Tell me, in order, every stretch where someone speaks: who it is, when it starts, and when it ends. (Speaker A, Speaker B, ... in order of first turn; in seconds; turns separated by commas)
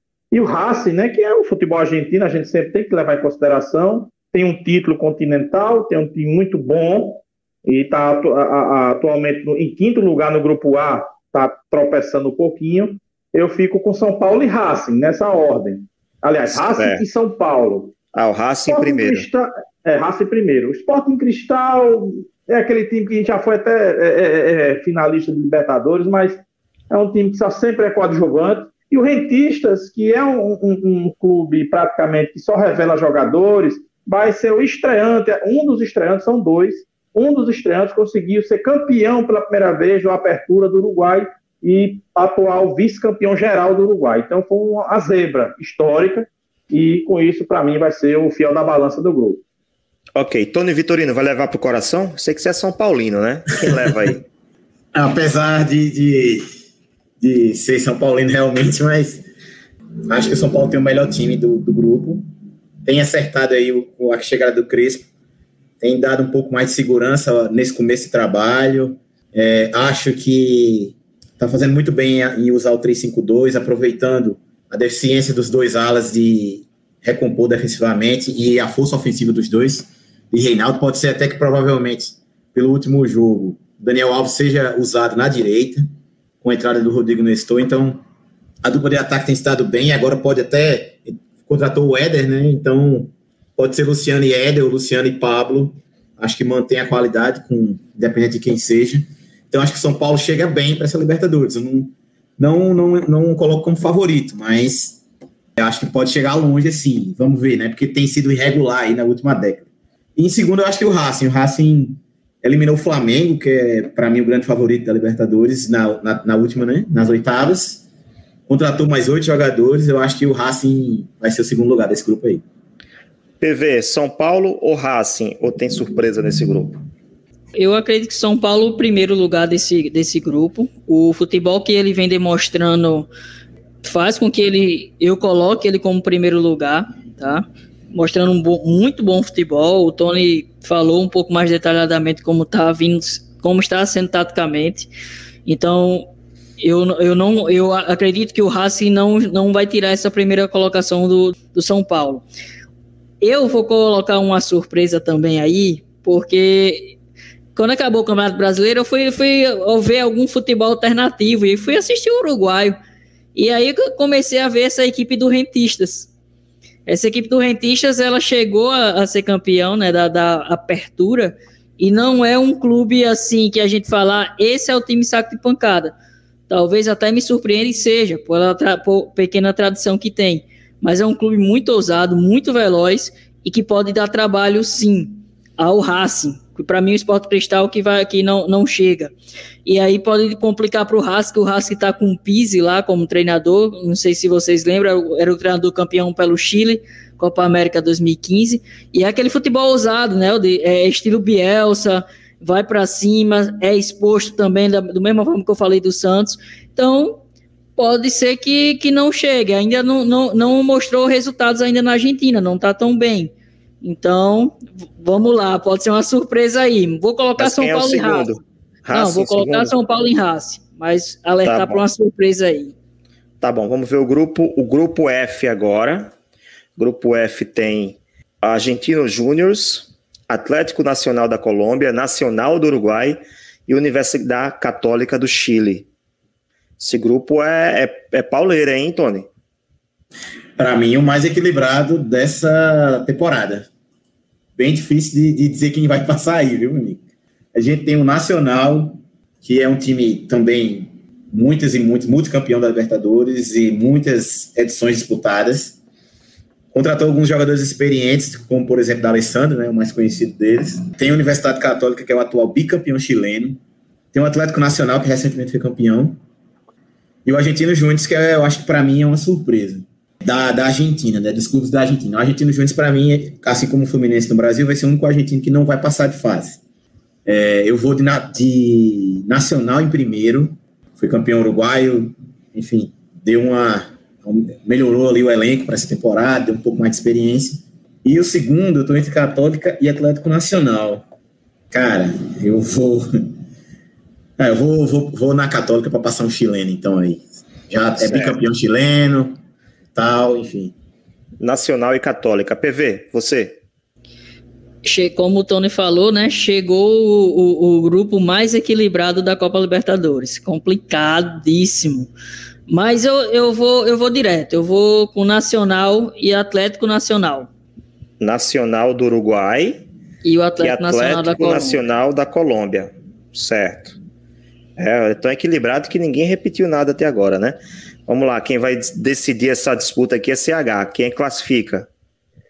Speaker A: 0.3-17.9, Speaker B: 16.5-17.0, Speaker B: 18.1-19.3, Speaker A: 18.7-26.4, Speaker A: 26.9-49.4, Speaker B: 50.1-54.2, Speaker C: 54.9-56.5, Speaker C: 57.2-59.2, Speaker C: 60.1-62.3, Speaker C: 62.8-65.1, Speaker C: 65.8-85.9, Speaker C: 86.4-88.0, Speaker C: 88.6-105.0, Speaker C: 105.6-117.8, Speaker C: 118.5-122.4, Speaker B: 123.4-126.8, Speaker D: 127.5-133.1, Speaker D: 133.8-144.9, Speaker D: 145.5-152.3, Speaker D: 153.2-157.0, Speaker D: 157.6-162.8, Speaker D: 163.3-166.1, Speaker D: 166.9-175.9, Speaker D: 176.5-189.1, Speaker D: 189.7-207.2, Speaker D: 207.8-218.3, Speaker B: 217.4-219.7, Speaker D: 218.9-222.7, Speaker B: 221.4-221.8, Speaker B: 223.4-226.1, Speaker B: 226.8-235.9, Speaker B: 236.8-239.3, Speaker C: 240.6-243.7, Speaker C: 244.6-247.0, Speaker C: 247.5-255.8, Speaker C: 256.7-263.6, Speaker C: 264.1-266.2, Speaker C: 267.2-276.6, Speaker C: 277.3-291.1, Speaker C: 291.7-293.3, Speaker C: 294.4-299.4, Speaker B: 298.0-298.4, Speaker C: 299.9-300.7, Speaker B: 301.4-303.6, Speaker D: 304.9-312.1, Speaker D: 312.7-317.5, Speaker B: 318.2-319.8, Speaker D: 320.2-321.8, Speaker B: 320.6-324.0, Speaker B: 324.8-331.9